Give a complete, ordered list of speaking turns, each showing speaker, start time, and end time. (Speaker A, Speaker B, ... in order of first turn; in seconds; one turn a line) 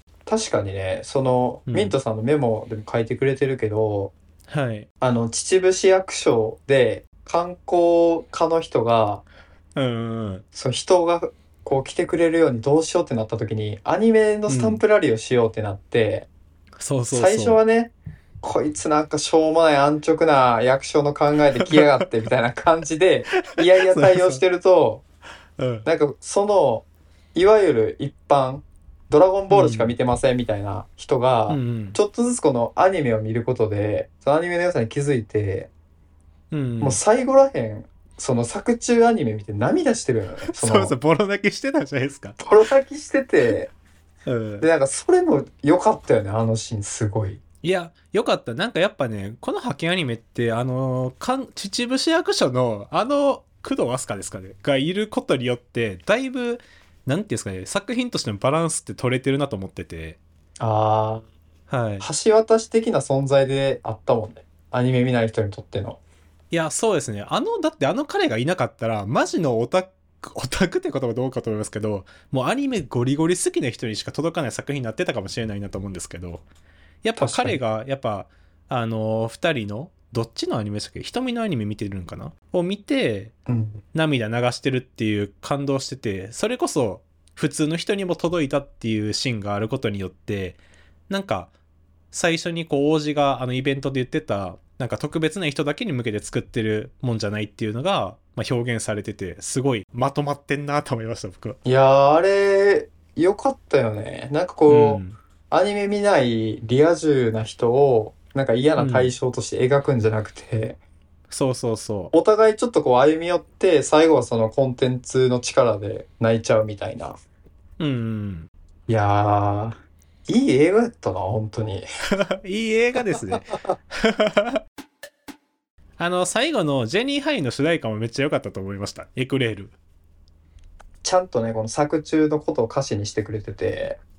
Speaker A: 0.3-4.1
Speaker B: 1.7-1.9
Speaker B: 4.5-4.9
Speaker A: 5.0-9.2
Speaker B: 9.8-10.4
Speaker A: 10.5-16.3
Speaker B: 14.5-14.8
Speaker B: 16.8-17.6
Speaker A: 17.1-25.0
Speaker B: 23.4-24.4
Speaker B: 25.6-25.9
Speaker A: 25.8-35.7
Speaker B: 29.5-29.9
Speaker B: 31.5-32.0
Speaker B: 36.5-37.0
Speaker A: 36.8-40.9
Speaker B: 40.5-42.4
Speaker A: 42.4-43.7
Speaker B: 44.2-44.6
Speaker A: 44.6-47.4
Speaker B: 47.6-60.2
Speaker A: 60.6-61.2
Speaker B: 61.7-62.0
Speaker A: 62.0-66.0
Speaker B: 66.5-76.4
Speaker B: 77.0-83.3
Speaker A: 77.2-77.6
Speaker A: 83.5-83.8
Speaker B: 83.9-91.5
Speaker B: 92.1-101.6
Speaker A: 101.6-110.8
Speaker B: 104.7-105.2
Speaker B: 108.8-109.1
Speaker B: 111.3-112.1
Speaker A: 112.1-117.2
Speaker B: 117.8-118.5
Speaker A: 118.9-121.8
Speaker B: 122.2-124.6
Speaker B: 126.0-129.7
Speaker A: 131.0-134.0